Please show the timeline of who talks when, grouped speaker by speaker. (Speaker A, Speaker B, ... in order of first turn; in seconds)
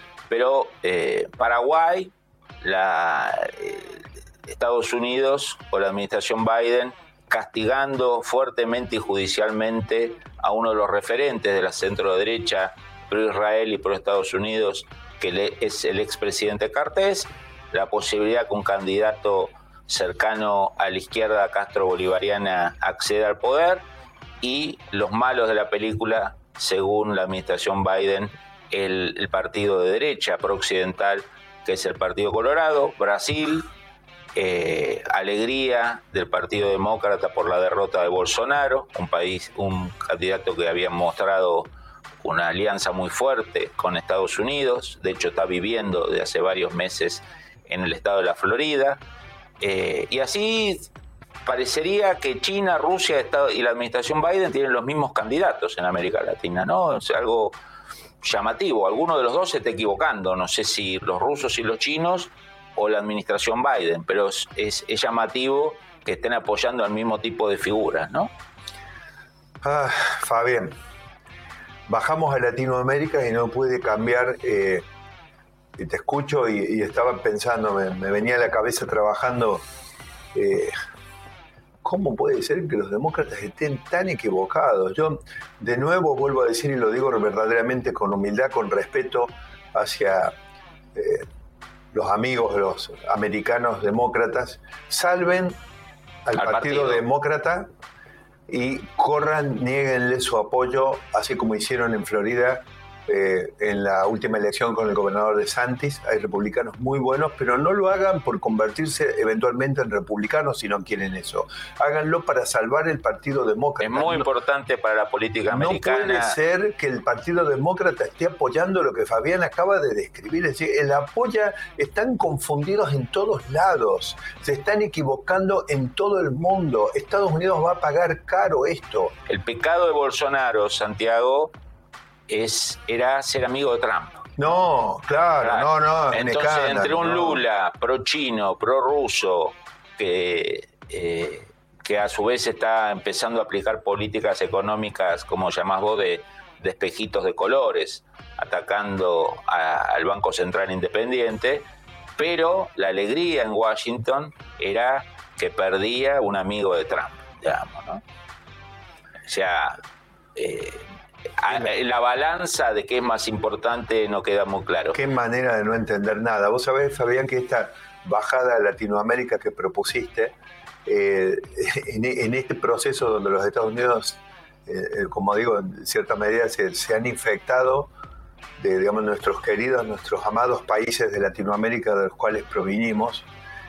Speaker A: 0.3-23.8, 24.4-33.7, 34.3-41.7, 42.2-49.0, 49.6-50.9, 51.4-57.5, 58.2-68.3, 96.4-97.0, 113.8-116.3, 129.3-131.5, 132.3-134.2, 135.4-151.7, 152.2-158.0, 159.2-159.8, 160.3-160.9, 161.4-165.0
Speaker B: 69.6-70.8, 71.9-74.8, 75.8-79.6, 80.3-80.7, 81.8-90.3, 90.9-91.3, 91.9-95.6, 96.2-97.7, 98.5-114.3, 115.5-129.1, 134.4-137.4, 164.9-170.3, 170.8-177.9, 178.6-183.2